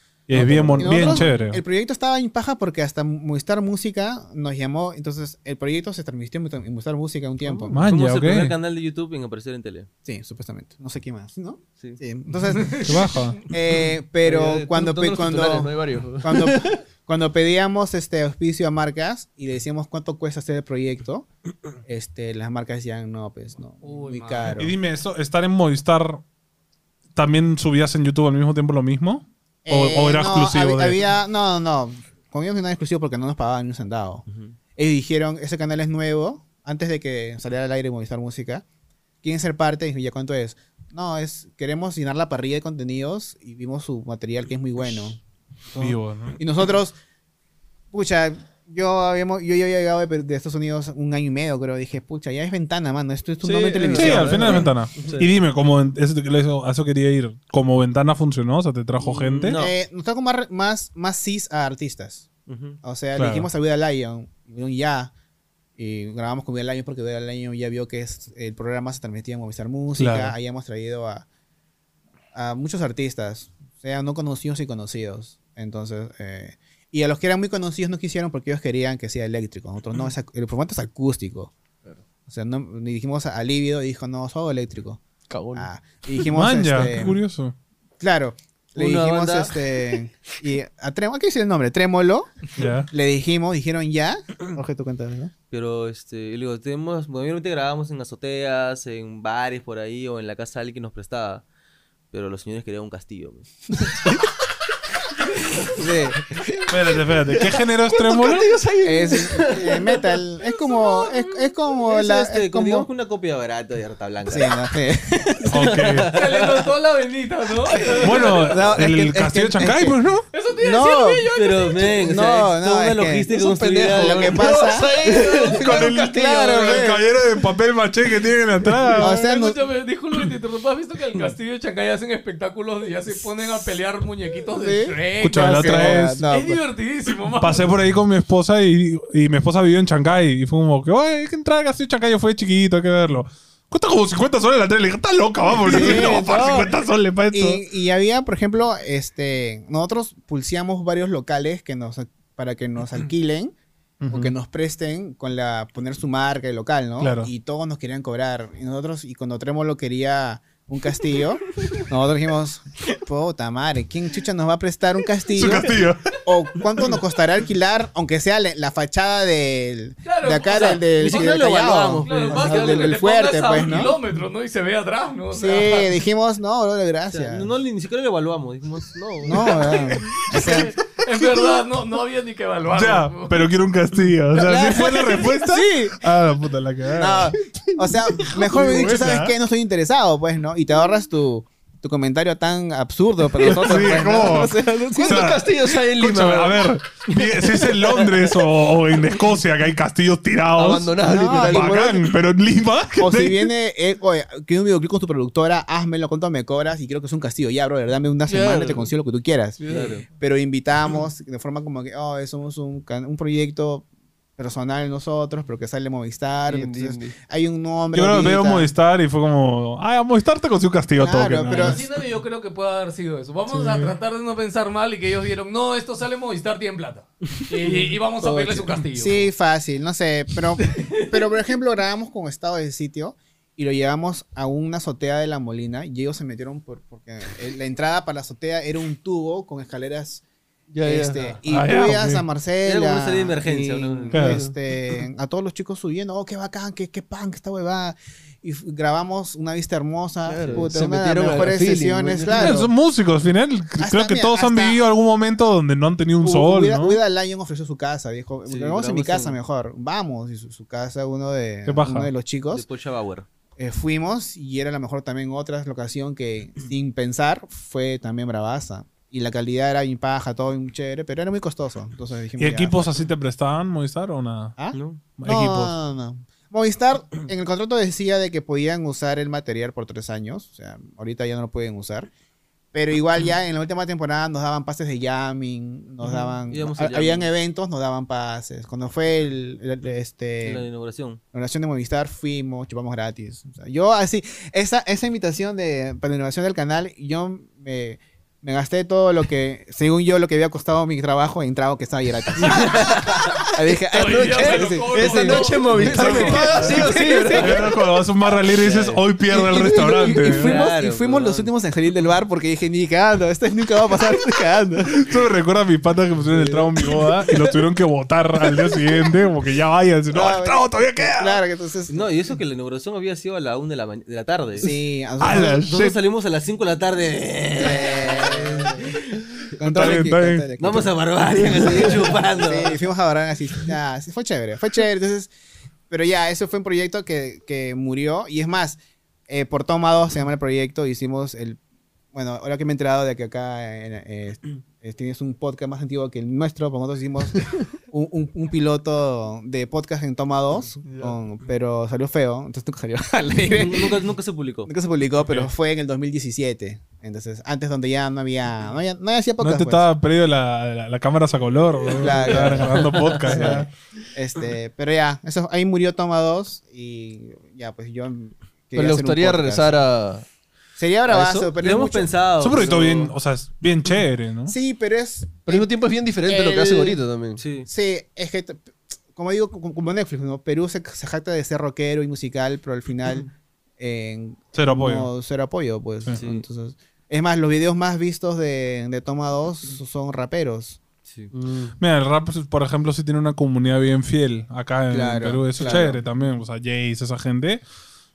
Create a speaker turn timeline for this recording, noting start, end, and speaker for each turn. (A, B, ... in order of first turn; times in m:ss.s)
0:00.3-0:01.6 A
0:00.3-0:01.3 B
0:00.7-0:07.8 C
0:07.7-0:08.6 A
0:07.7-0:09.9 D
0:10.0-0:21.3 C
0:12.6-0:13.0 E
0:12.8-0:13.4 A
0:14.2-0:16.8 B
0:21.8-0:24.7 C
0:23.8-0:24.6 E
0:24.6-0:26.2 A
0:27.2-0:31.0 A
0:29.7-0:34.2 C
0:34.3-0:34.5 D
0:34.8-0:38.6 C
0:39.2-0:45.2 C
0:45.7-0:47.0 C
0:45.8-0:46.4 A
0:47.9-0:54.7 C
0:53.4-0:55.3 B
0:53.9-0:59.6 A
0:59.0-0:59.8 D
0:59.5-1:02.3 C
1:02.5-1:02.8 D
1:02.8-1:05.1 C
1:03.2-1:03.5 A
1:05.8-1:11.2 C
1:10.0-1:10.4 A
1:12.3-1:21.5 C
1:22.3-1:25.0 C
1:25.3-1:25.7 B
1:25.5-1:27.2 C
1:26.3-1:27.5 A
1:28.0-1:35.3 C
1:28.8-1:29.6 D
1:32.6-1:32.9 A
1:35.5-1:41.4 D
1:42.1-1:43.5 D
1:45.7-1:46.4 C
1:46.4-1:50.2 B
1:46.7-1:48.5 A
1:48.8-1:52.9 C
1:51.8-1:54.6 D
1:54.3-1:55.7 C
1:55.5-1:56.7 D
1:55.5-1:56.2 A
1:56.1-1:58.6 E
1:58.0-2:00.3 A
1:58.1-2:00.0 C
2:00.3-2:02.2 E
2:00.6-2:03.4 C
2:01.4-2:04.8 D
2:03.3-2:06.9 B
2:03.9-2:05.0 C
2:05.0-2:05.6 E
2:05.6-2:09.2 A
2:05.7-2:07.1 C
2:08.9-2:17.8 E
2:09.0-2:09.6 C
2:14.6-2:16.6 C
2:15.2-2:16.2 A
2:17.4-2:27.6 A
2:25.6-2:26.7 C
2:27.3-2:33.5 C
2:34.0-2:34.3 A
2:34.1-2:54.0 C
2:37.0-2:37.3 A
2:45.4-2:46.2 A
2:50.0-2:51.4 E
2:50.5-2:53.0 D
2:52.0-2:55.9 E
2:55.3-2:57.5 C
2:57.1-2:59.8 D
2:59.2-3:00.7 C
2:59.4-3:03.5 E
3:02.7-3:07.3 A
3:04.4-3:05.2 E
3:04.4-3:06.0 C
3:06.9-3:15.2 C
3:07.5-3:09.0 B
3:08.2-3:09.3 A
3:13.4-3:23.5 A
3:14.9-3:17.0 B
3:17.6-3:18.3 B
3:20.6-3:21.9 B
3:21.0-3:22.1 C
3:23.0-3:33.8 C
3:28.3-3:28.9 B
3:29.6-3:30.0 B
3:29.7-3:30.1 D
3:34.4-3:38.7 C
3:36.5-3:37.2 B
3:37.9-3:41.8 A
3:41.0-3:41.8 C
3:41.5-3:49.3 E
3:43.5-3:43.9 A
3:47.7-4:00.2 C
4:00.7-4:01.4 B
4:00.8-4:12.7 C
4:01.5-4:02.3 A
4:02.6-4:04.2 D
4:04.1-4:04.4 A
4:04.2-4:04.5 B
4:10.2-4:12.6 B
4:10.4-4:10.7 D
4:12.4-4:17.0 A
4:13.8-4:14.8 C
4:16.2-4:22.6 C
4:18.5-4:19.4 D
4:21.7-4:22.1 A
4:22.5-4:23.3 D
4:23.6-4:32.8 C
4:32.4-4:35.7 A
4:34.6-4:42.1 C
4:34.7-4:35.0 D
4:42.7-4:50.7 C
4:46.0-4:47.3 D
4:50.4-4:51.2 D
4:51.3-5:07.4 C
5:02.6-5:03.3 B
5:02.8-5:03.3 D
5:03.9-5:07.7 B
5:03.9-5:07.7 E
5:05.7-5:10.6 A
5:08.5-5:09.0 D
5:09.3-5:10.3 B
5:10.2-5:11.5 D
5:10.2-5:15.1 C
5:14.9-5:21.4 A
5:20.1-5:22.1 C
5:21.9-5:24.7 D
5:24.6-5:25.6 C
5:25.2-5:26.0 A
5:25.3-5:29.0 D
5:27.6-5:28.9 C
5:29.6-5:35.3 C
5:29.6-5:30.9 A
5:30.6-5:32.8 D
5:35.9-5:41.6 C
5:42.1-5:54.0 C
5:53.5-5:54.7 D
5:54.7-5:59.9 C
5:59.4-6:03.7 A
6:02.0-6:09.8 C
6:02.5-6:03.7 B
6:08.7-6:10.3 B
6:10.8-6:12.1 C
6:11.1-6:11.5 B
6:11.6-6:13.1 D
6:12.4-6:14.5 A
6:14.5-6:15.7 C
6:15.4-6:17.4 B
6:16.3-6:17.0 C
6:17.4-6:17.7 D
6:17.7-6:23.3 C
6:23.8-6:30.8 C
6:24.5-6:25.1 A
6:26.2-6:26.4 D
6:31.1-6:31.3 D
6:31.3-6:31.8 B
6:31.8-6:37.6 A
6:34.9-6:36.0 C